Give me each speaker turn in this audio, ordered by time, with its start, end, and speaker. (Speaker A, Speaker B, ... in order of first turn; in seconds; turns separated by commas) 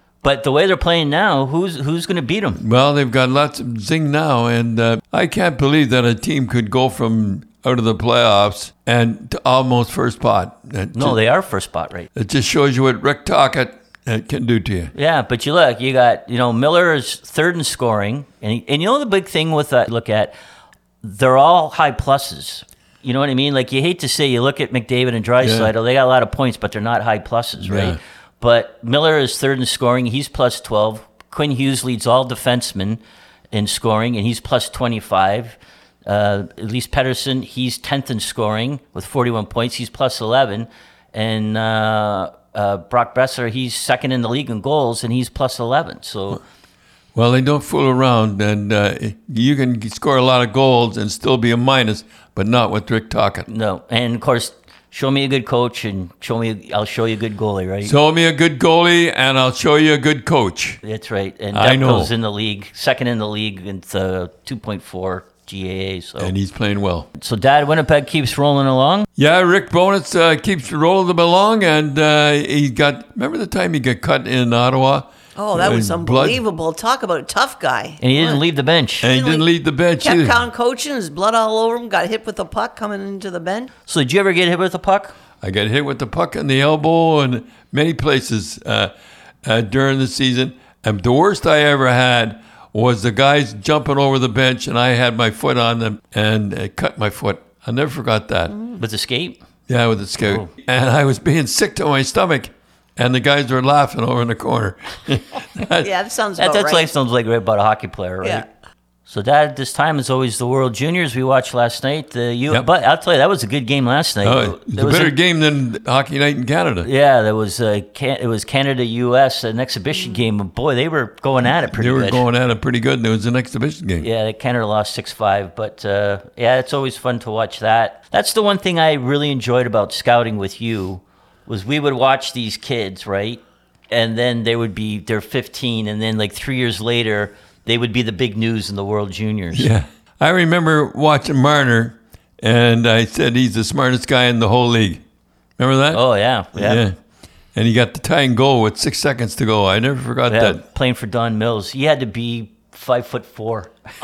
Speaker A: 0.2-2.6, Speaker B: 2.6-11.2, Speaker A: 10.9-12.1, Speaker B: 12.1-14.9, Speaker A: 14.9-20.3, Speaker A: 21.0-33.0, Speaker B: 25.4-25.7, Speaker B: 27.6-28.0, Speaker A: 33.5-46.4, Speaker B: 47.1-53.5, Speaker A: 53.5-57.9, Speaker B: 57.8-60.8, Speaker A: 60.8-66.3, Speaker B: 61.5-62.1, Speaker B: 66.2-67.1, Speaker A: 67.2-69.1, Speaker B: 69.2-76.4, Speaker C: 75.3-78.4, Speaker A: 78.0-79.1, Speaker B: 79.0-80.4, Speaker C: 79.1-83.7, Speaker A: 83.9-85.1, Speaker B: 85.4-88.9, Speaker B: 89.4-98.5, Speaker C: 98.5-98.8, Speaker A: 98.8-99.4, Speaker B: 99.7-105.9, Speaker A: 100.2-100.5, Speaker C: 105.8-106.9, Speaker A: 106.4-108.5, Speaker A: 109.0-115.2, Speaker B: 114.2-116.9, Speaker A: 116.8-122.2, Speaker B: 121.4-124.0, Speaker A: 124.0-139.7, Speaker B: 139.5-145.0, Speaker B: 145.6-146.0, Speaker A: 145.9-146.8, Speaker B: 146.5-146.9, Speaker B: 147.5-150.6, Speaker A: 150.3-153.7